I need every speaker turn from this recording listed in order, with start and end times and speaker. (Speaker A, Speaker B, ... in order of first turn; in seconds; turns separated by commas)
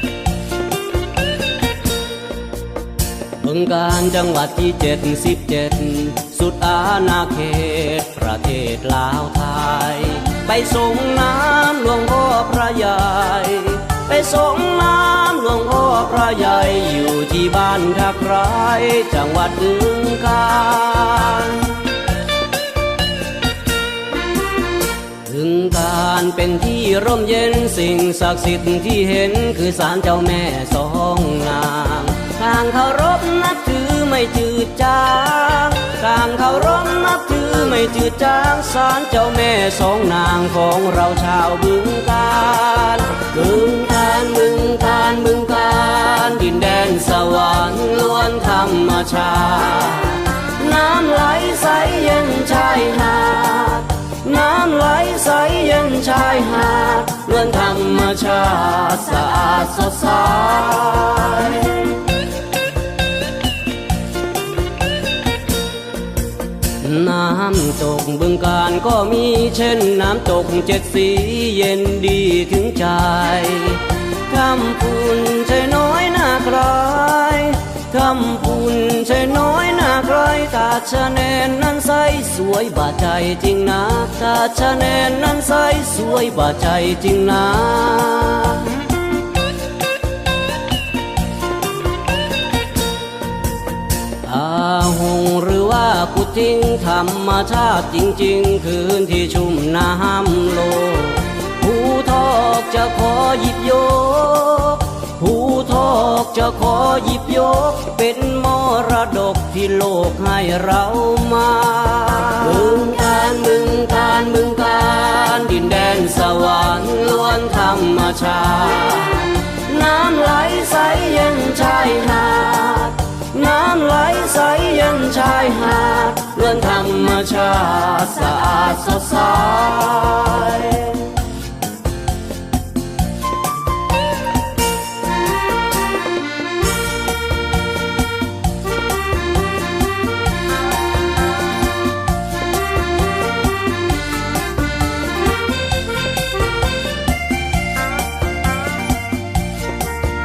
Speaker A: 3.4-21.9, Speaker A: 25.2-62.1, Speaker A: 66.8-88.9, Speaker A: 94.2-131.2